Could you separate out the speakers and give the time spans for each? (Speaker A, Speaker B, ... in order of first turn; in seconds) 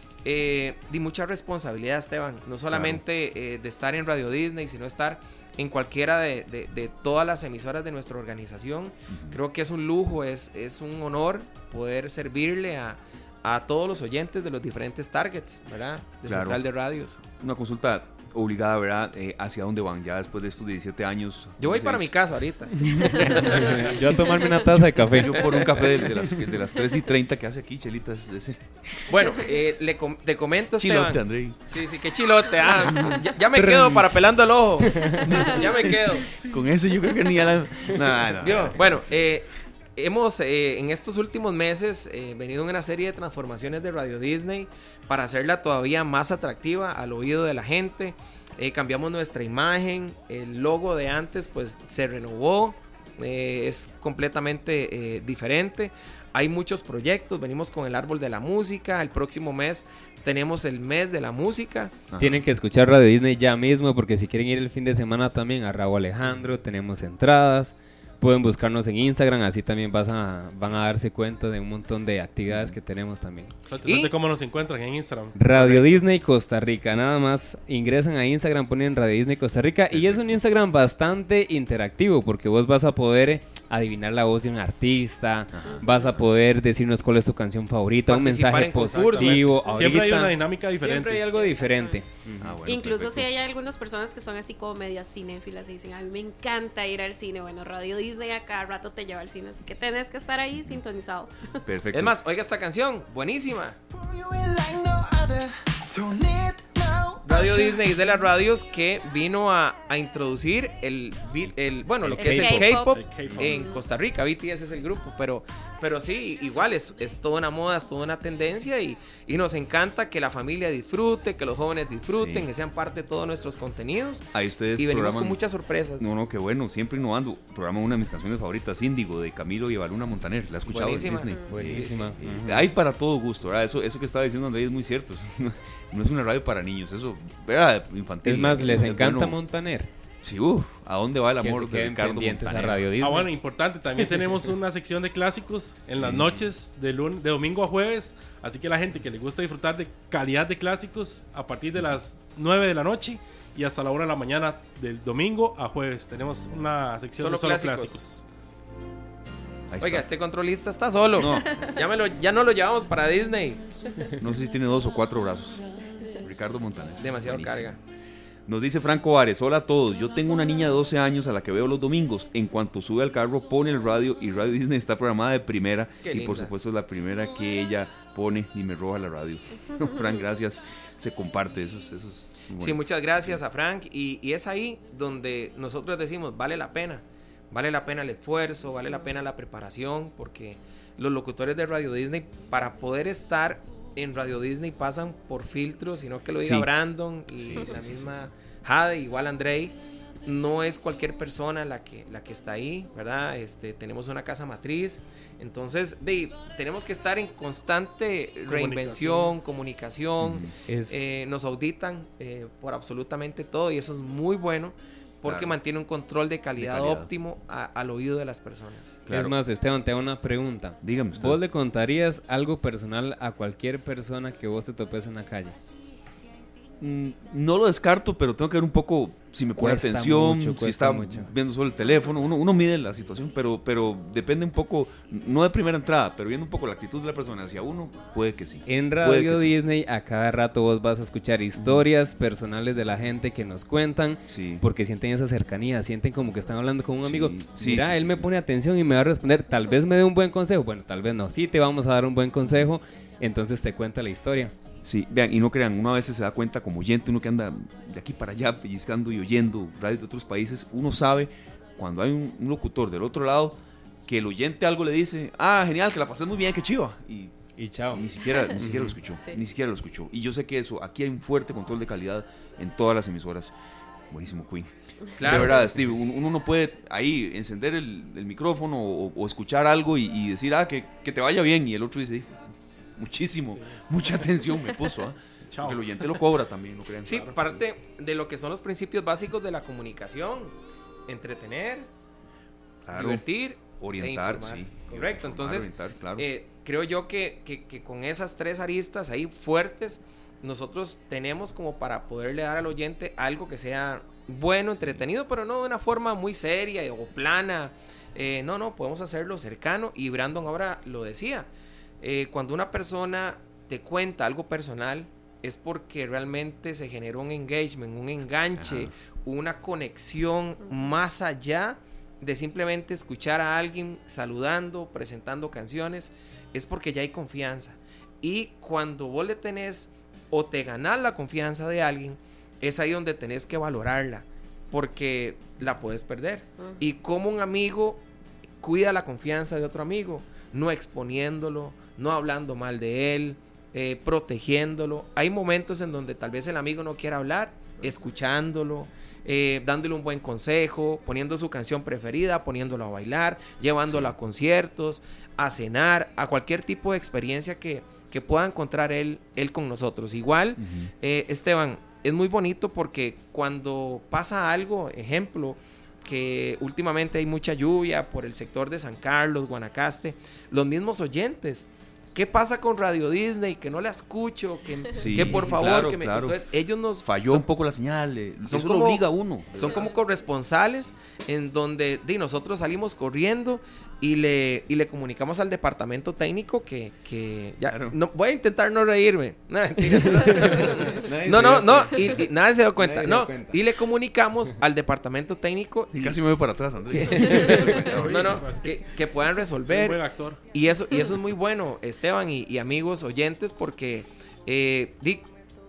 Speaker A: 0.2-17.2, 21.6-23.9, 29.1-36.3, 38.4-61.9, 73.8-74.1, 88.1-89.7, 91.2-91.7, 101.9-103.8, 107.2-126.1, 130.7-132.1, 157.2-158.2, 159.8-163.6, 167.0-167.8, 176.0-176.5, 182.6-219.0, 275.2-275.6, 287.0-290.5, 291.1-291.9, 292.9-311.5, 312.0-338.0, 338.6-377.4, 378.5-396.2, 396.9-405.2
Speaker B: 2.7-3.0, 9.1-9.4, 16.2-16.6, 17.4-22.1, 22.8-24.0, 25.1-29.2, 30.8-31.6, 35.2-39.2, 62.1-62.4, 72.5-72.8, 79.9-80.4, 85.5-86.2, 92.4-93.3, 101.7-102.1, 122.1-122.5, 124.3-125.4, 126.0-139.4, 140.2-142.9, 146.0-146.3, 159.7-160.1, 161.1-161.6, 164.2-167.8, 168.5-183.4, 196.4-196.7, 197.3-198.2, 210.2-210.5, 215.2-215.6, 216.6-217.1, 219.1-219.3, 220.8-221.4, 226.8-239.5, 241.6-241.8, 244.3-244.6, 247.0-248.2, 254.8-267.3, 267.9-273.5, 274.1-287.6, 292.8-293.2, 293.8-296.2, 304.8-305.0, 318.6-318.9, 353.9-354.1, 360.6-360.9, 375.0-376.4, 377.0-379.8, 387.7-387.9, 391.1-392.0, 395.9-398.5
Speaker C: 23.7-25.4, 33.6-34.0, 62.2-73.5, 75.3-92.6, 112.0-113.5, 131.5-132.7, 138.2-139.9, 141.4-143.3, 146.0-146.4, 210.7-210.9, 219.1-225.6, 229.6-231.3, 238.7-254.5, 267.6-268.9, 390.9-392.0, 392.8-393.6
Speaker D: 73.7-76.0, 88.1-91.2, 112.6-113.8, 143.0-158.2, 208.5-209.4, 285.5-285.8, 398.0-398.9, 399.6-400.4
Speaker E: 91.6-92.0, 92.6-101.3, 112.2-113.0, 131.3-131.6, 161.4-161.8